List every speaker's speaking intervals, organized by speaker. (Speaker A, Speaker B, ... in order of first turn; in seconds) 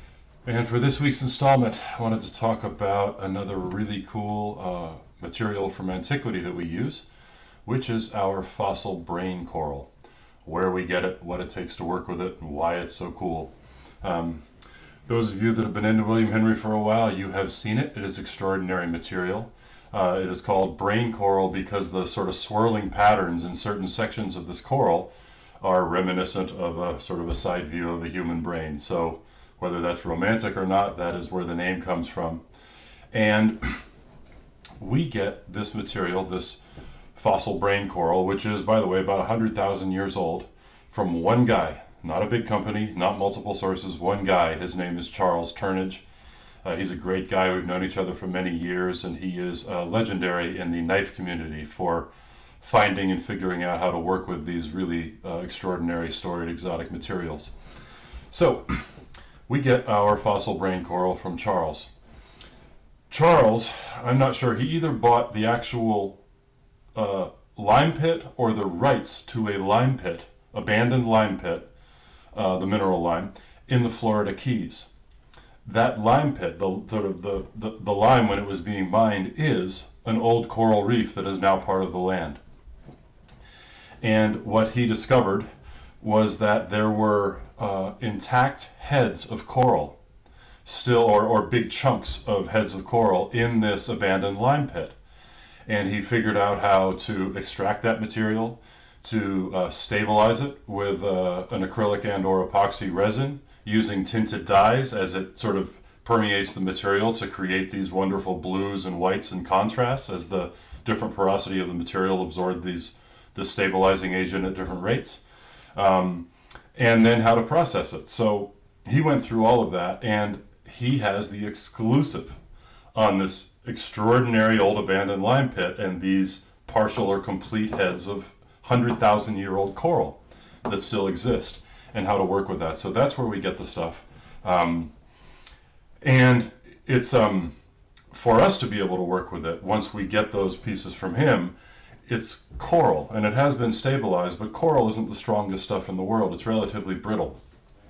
Speaker A: 0.5-7.0, 7.7-9.9, 10.4-14.4, 15.1-25.1, 25.6-32.4, 33.1-33.8, 34.8-36.6, 37.1-46.0, 46.6-52.1, 52.6-57.5, 58.3-58.9, 59.5-61.9, 63.1-66.2, 67.0-71.7, 72.3-74.9, 75.7-82.4, 84.0-85.5, 86.0-90.0, 90.7-95.0, 95.7-115.2, 115.8-122.4, 122.9-134.9, 136.0-137.5, 138.1-141.5, 142.1-147.4